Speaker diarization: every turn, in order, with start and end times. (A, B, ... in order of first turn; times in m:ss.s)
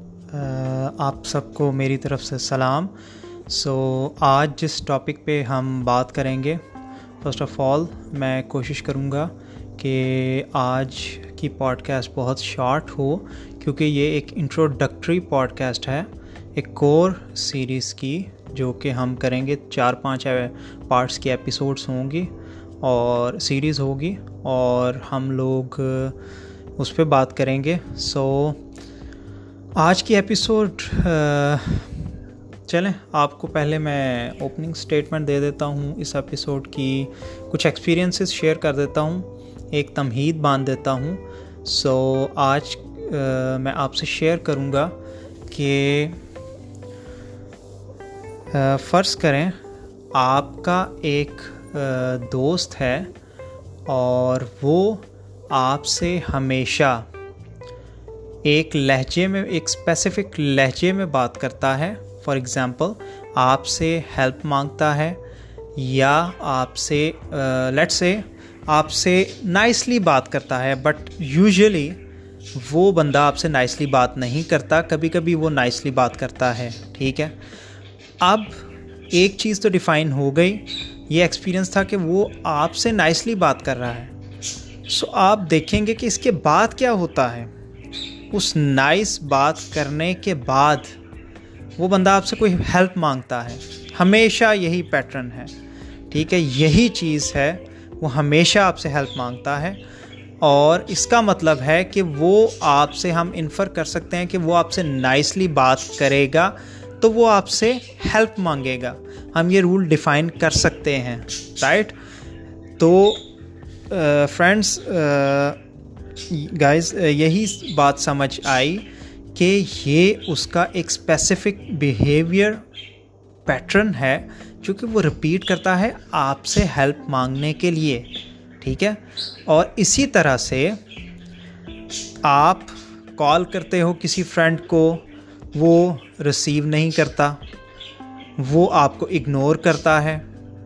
0:00.3-0:02.9 A
0:03.5-0:06.6 A
0:07.2-0:26.2 A
0:26.8-0:28.6 A
0:29.8-0:32.0 A
0:32.7-0:44.9 A
0:45.5-0:46.2 A
0:48.5-0:49.6 A
0:50.1-0:53.1 A
0:53.8-0:57.1 A
0:58.4-1:05.2 A
1:05.8-1:12.0 A
1:12.6-1:17.3 A
1:18.2-1:18.6 A
1:19.1-1:24.1 A
1:24.9-1:27.5 A
1:28.3-1:30.9 A
1:31.8-1:35.5 A
1:36.1-1:39.8 A
1:40.4-1:51.9 A
1:52.8-1:53.2 A
1:53.9-1:55.6 A
1:56.3-2:02.6 A
2:03.4-2:08.1 A
2:08.6-2:10.8 A
2:12.2-2:17.4 A
2:18.4-2:20.2 A